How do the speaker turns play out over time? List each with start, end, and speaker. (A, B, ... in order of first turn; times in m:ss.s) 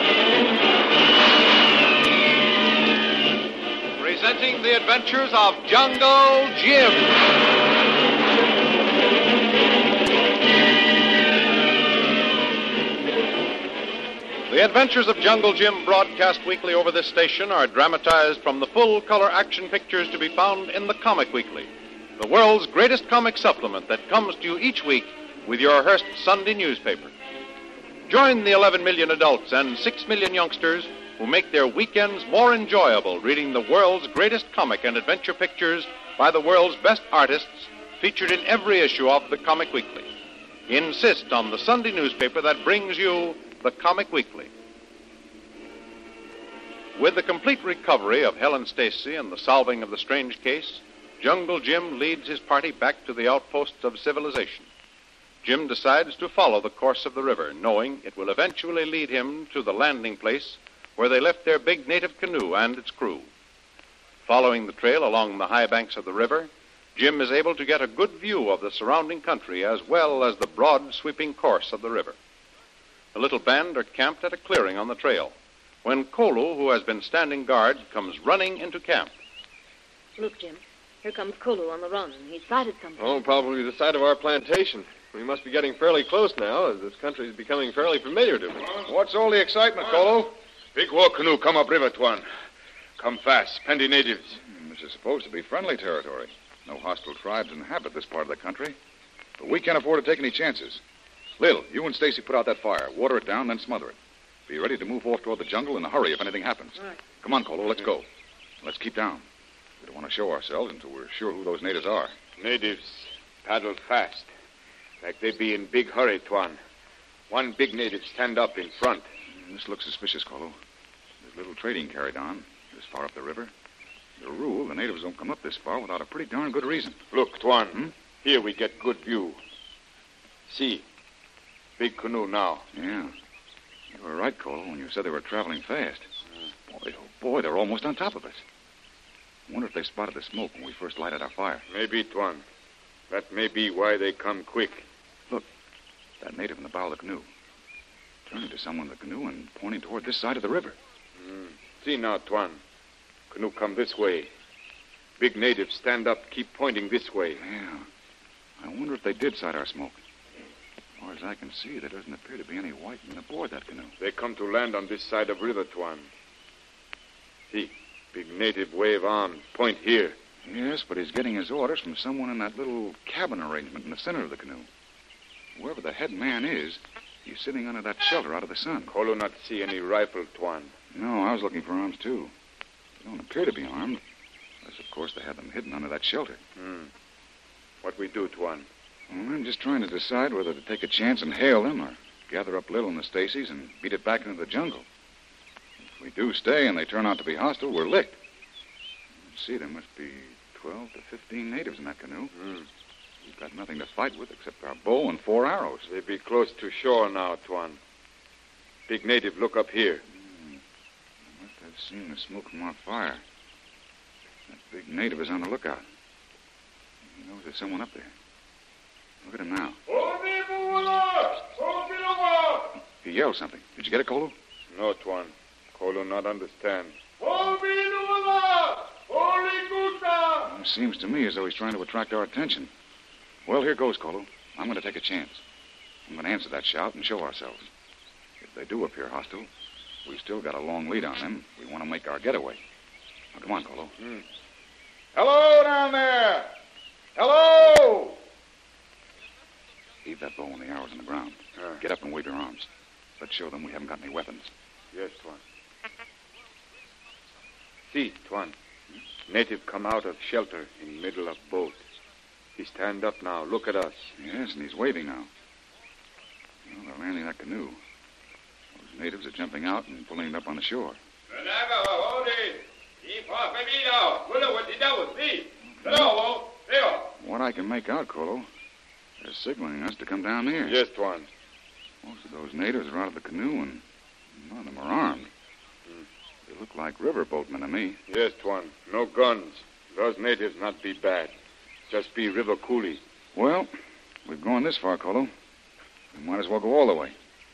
0:04.0-0:07.1 A
0:14.5-0:27.1 A
0:28.1-0:40.1 A
0:40.7-0:44.5 A
0:47.0-0:54.7 A
0:55.4-1:03.3 A
1:04.3-1:12.2 A
1:13.2-1:19.1 A
1:20.2-1:23.2 B
1:23.0-1:28.8 C
1:28.9-1:30.4 D
1:30.8-1:32.2 E
1:33.0-1:34.4 E
1:34.4-1:38.8 D
1:39.4-1:40.8 D
1:41.4-1:44.0 D
1:44.5-1:48.1 D
1:48.6-1:49.2 D
1:49.8-1:52.1 D
1:52.4-1:54.3 E
1:55.0-1:56.6 E
1:57.3-1:59.0 E
1:59.3-2:00.6 D
2:01.2-2:03.5 D
2:04.2-2:07.0 D
2:07.1-2:09.4 E
2:10.5-2:10.8 E
2:11.8-2:12.6 E
2:12.7-2:13.1 D
2:13.9-2:16.1 D
2:16.7-2:18.4 D
2:19.5-2:21.6 D
2:21.7-2:22.4 E
2:23.1-2:24.9 E
2:26.2-2:27.3 D
2:28.3-2:30.8 D
2:31.2-2:32.6 E
2:33.3-2:34.3 E
2:35.2-2:37.4 E
2:37.3-2:37.9 D
2:38.6-2:40.0 D
2:41.0-2:44.0 D
2:44.0-2:46.1 E
2:47.5-2:50.2 E
2:50.4-2:54.7 D
2:55.6-2:58.9 D
2:58.9-3:00.7 E
3:00.9-3:02.3 D
3:03.0-3:04.0 D
3:04.6-3:06.4 D
3:06.6-3:06.9 E
3:07.8-3:08.7 E
3:09.1-3:14.8 D
3:16.0-3:18.2 D
3:19.3-3:22.3 D
3:23.2-3:25.9 D
3:25.8-3:27.8 E
3:28.9-3:30.0 E
3:30.1-3:30.6 D
3:31.3-3:33.2 D
3:34.5-3:35.8 D
3:37.1-3:38.1 D
3:39.2-3:39.8 D
3:39.9-3:42.7 E
3:42.8-3:44.4 D
3:44.7-3:50.5 E
3:50.5-3:52.7 D
3:53.5-3:55.4 D
3:56.1-3:57.7 D
3:58.4-3:59.5 D
4:00.1-4:02.6 D
4:03.4-4:04.0 D
4:05.2-4:06.4 D
4:07.2-4:08.1 D
4:10.0-4:12.7 D
4:13.2-4:14.5 D
4:14.9-4:15.4 E
4:17.9-4:18.5 E
4:19.3-4:21.8 E
4:22.6-4:24.1 E
4:24.2-4:25.3 D
4:26.7-4:27.8 D
4:28.8-4:31.0 D
4:31.3-4:37.1 E
4:35.8-4:36.1 D
4:37.2-4:38.5 D
4:39.2-4:40.8 D
4:40.6-4:41.3 E
4:42.0-4:43.8 D
4:44.4-4:45.3 D
4:46.5-4:48.0 D
4:48.1-4:51.3 E
4:51.9-4:53.0 E
4:53.4-4:53.7 D
4:54.3-4:55.3 D
4:56.1-4:57.1 D